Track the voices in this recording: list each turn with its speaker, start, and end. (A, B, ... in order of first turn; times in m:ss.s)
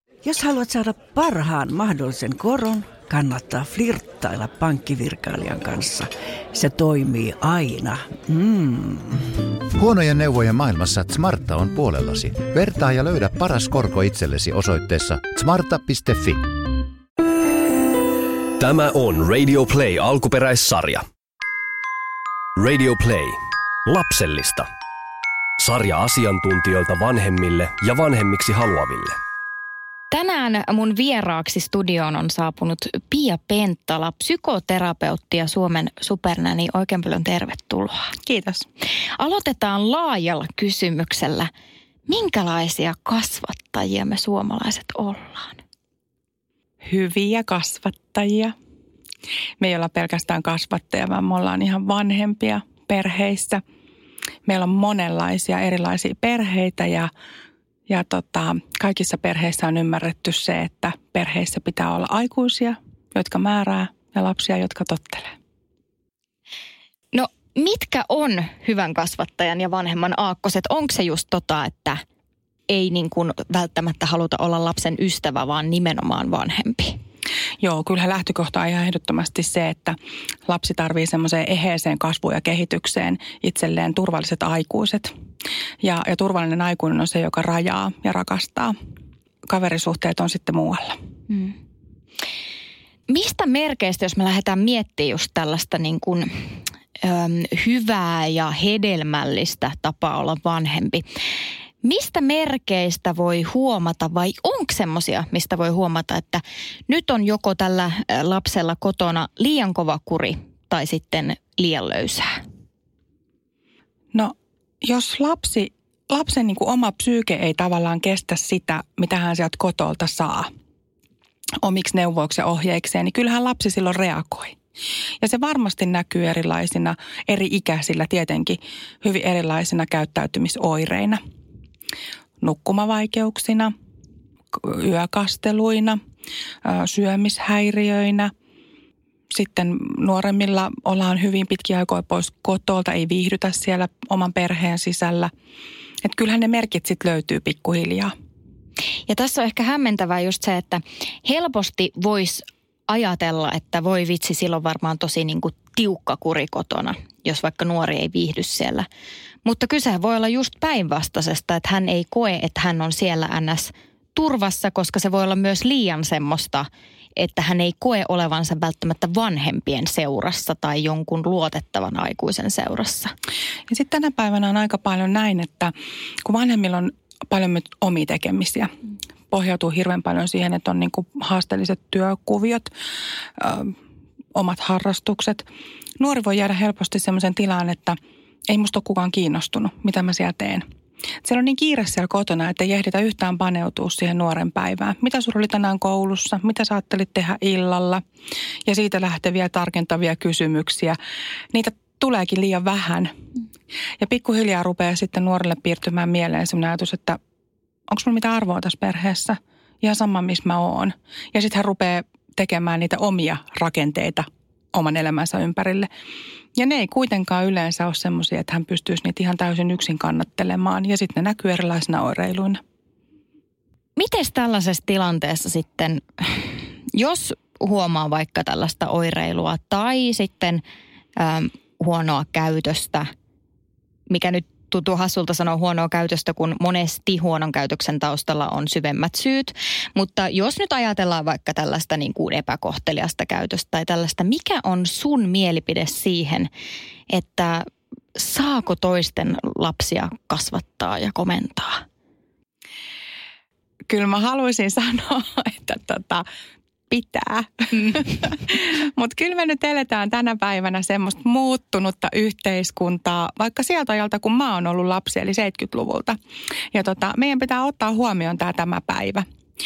0:00.2-0:09.2 A
0:09.7-0:16.6 B
0:18.6-0:21.0 C
0:22.6-0:24.7 C
0:25.6-0:29.2 C
0:30.1-0:38.1 D
0:38.2-0:38.6 E
0:39.2-0:41.5 D
0:42.1-0:45.6 D
0:46.8-0:48.5 E
0:49.6-0:53.6 E
0:54.4-0:57.1 E
0:57.9-1:05.3 E
1:07.1-1:12.0 D
1:12.7-1:17.0 D
1:17.6-1:25.1 E
1:25.8-1:28.7 E
1:29.4-1:31.0 E
1:31.3-1:31.5 D
1:33.1-1:41.0 D
1:41.8-1:52.4 D
1:54.1-2:00.5 E
2:01.6-2:04.6 E
2:05.2-2:11.2 E
2:12.4-2:13.7 E
2:14.5-2:16.0 E
2:16.6-2:18.3 E
2:19.3-2:25.3 E
2:26.0-2:28.1 E
2:29.1-2:38.9 D
2:39.4-2:53.1 D
2:53.7-2:55.7 E
2:56.2-2:58.7 E
2:59.3-3:02.7 E
3:03.4-3:03.7 E
3:04.3-3:05.5 E
3:06.0-3:08.0 E
3:08.5-3:10.6 E
3:11.2-3:18.0 E
3:18.6-3:21.0 E
3:21.5-3:23.1 E
3:24.0-3:27.2 E
3:27.9-3:35.9 E
3:36.6-3:42.6 E
3:44.0-3:50.6 D
3:51.2-3:53.1 D
3:54.1-4:06.5 D
4:07.1-4:11.8 D
4:13.9-4:16.2 E
4:16.9-4:26.2 E
4:26.7-4:29.2 E